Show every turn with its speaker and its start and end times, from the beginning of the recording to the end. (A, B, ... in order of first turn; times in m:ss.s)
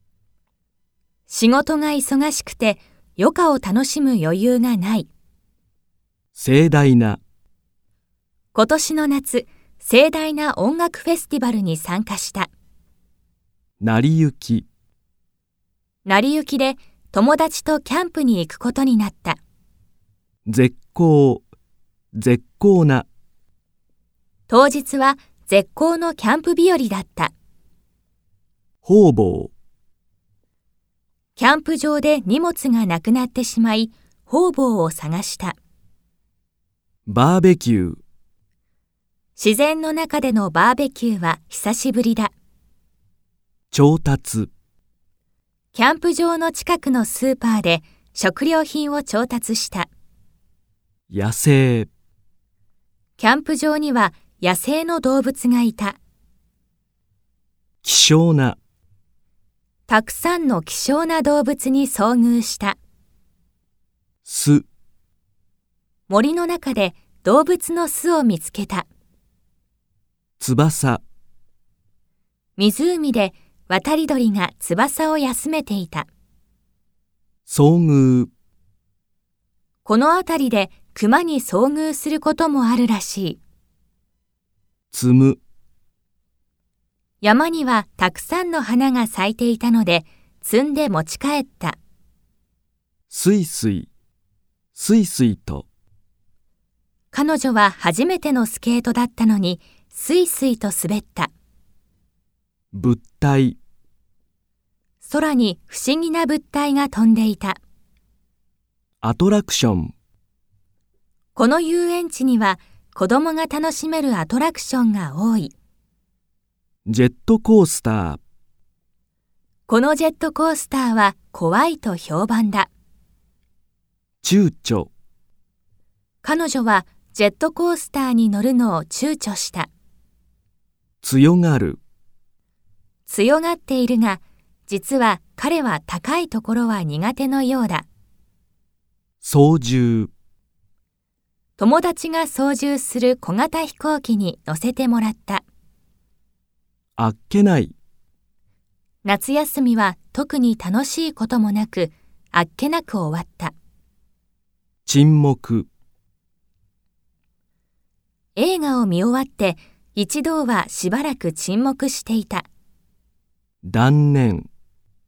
0:01.3-0:05.1 A
0:06.4-0:07.2 B
0:08.5-0:12.5 A
0:13.8-0:14.7 B
0:16.0-0:19.4 A
0:20.4-0:21.4 B
0:22.1-0:23.1 B
0:24.5-0:27.3 A
0:28.8-0:29.5 B
0:31.4-0:35.6 A
0:37.0-0:38.0 B
0:39.4-0:42.3 A
0:43.7-0:44.5 B
0:45.7-0:49.9 A
0:51.1-0:51.9 B
0:53.2-0:56.0 A
0:57.8-0:58.6 B
0:59.9-1:02.8 A
1:04.2-1:04.6 B
1:06.1-1:08.9 A
1:10.4-1:11.0 B
1:12.6-1:16.1 A
1:17.5-1:18.3 B
1:19.8-1:23.4 A
1:24.9-1:25.4 B
1:27.2-1:31.8 A
1:33.1-1:33.9 B
1:34.7-1:35.7 B
1:37.1-1:41.3 A
1:42.7-1:43.6 B
1:45.0-1:47.6 A
1:49.0-1:49.9 B
1:51.4-1:55.5 A
1:56.9-1:58.2 B
1:59.7-2:02.7 A
2:04.2-2:04.9 B
2:06.2-2:09.7 A
2:11.0-2:11.8 B
2:13.1-2:17.8 A
2:19.2-2:20.1 B
2:21.6-2:25.4 A
2:27.0-2:27.8 B
2:29.0-2:33.5 A
2:34.8-2:35.7 B
2:38.4-2:42.5 A
2:43.6-2:44.5 B